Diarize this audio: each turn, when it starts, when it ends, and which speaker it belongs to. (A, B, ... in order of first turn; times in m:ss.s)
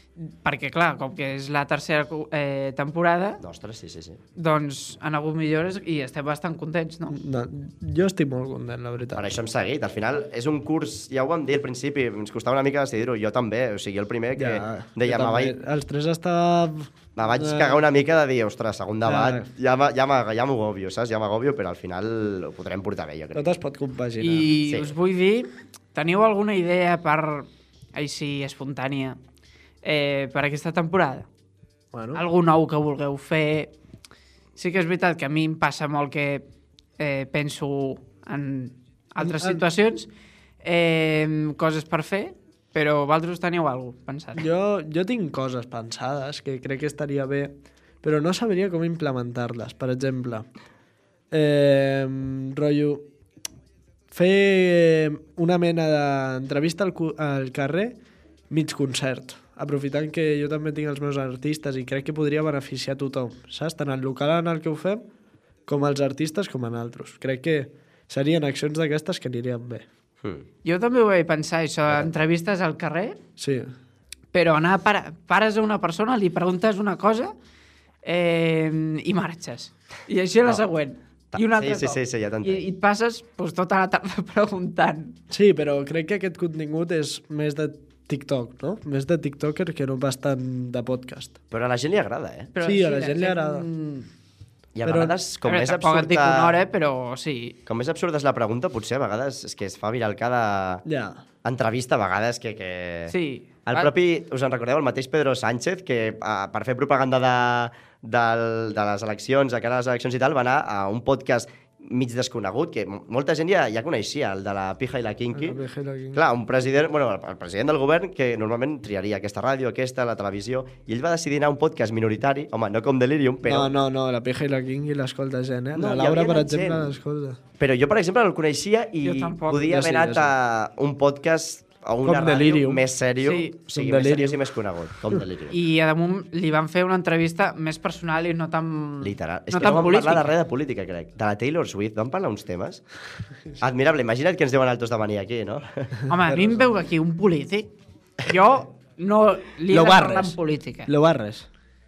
0:00.2-0:03.4 A
0:03.4-0:04.2 B
0:04.4-0:07.2 A
0:07.1-0:09.3 C
0:09.1-0:15.6 B
0:14.4-0:17.9 C
0:17.1-0:23.5 B
0:19.0-0:19.5 C
0:23.3-0:24.5 C
0:24.2-0:29.2 A
0:24.6-0:24.9 B
0:29.8-0:31.3 A
0:31.9-0:32.2 C
0:32.1-0:33.7 A
0:34.6-0:36.4 A
0:37.0-0:40.1 A
0:39.2-0:39.6 C
0:40.6-0:44.5 A
0:44.4-0:50.4 C
0:51.3-0:53.0 C
0:54.1-0:58.0 C
0:58.5-1:05.0 C
1:05.7-1:09.8 C
1:10.6-1:13.2 A
1:11.9-1:12.1 B
1:13.4-1:13.7 C
1:14.3-1:17.3 A
1:18.0-1:25.2 A
1:21.3-1:22.6 B
1:25.3-1:31.3 C
1:31.5-1:32.5 B
1:32.5-1:34.1 A
1:32.6-1:33.7 C
1:34.7-1:36.6 B
1:34.8-1:35.2 C
1:35.4-1:37.6 A
1:37.7-1:40.8 B
1:40.8-1:41.2 C
1:41.4-1:43.1 B
1:43.1-1:43.9 A
1:43.6-1:55.6 B
1:55.3-1:56.2 C
1:56.1-2:03.7 B
2:03.4-2:07.4 C
2:05.7-2:07.0 B
2:07.6-2:15.6 B
2:09.0-2:09.7 A
2:09.7-2:10.3 C
2:12.0-2:12.8 C
2:13.2-2:13.5 A
2:13.7-2:14.4 C
2:15.5-2:20.3 A
2:19.0-2:22.8 B
2:23.6-2:26.0 B
2:26.1-2:30.9 A
2:26.2-2:26.7 C
2:29.7-2:31.5 C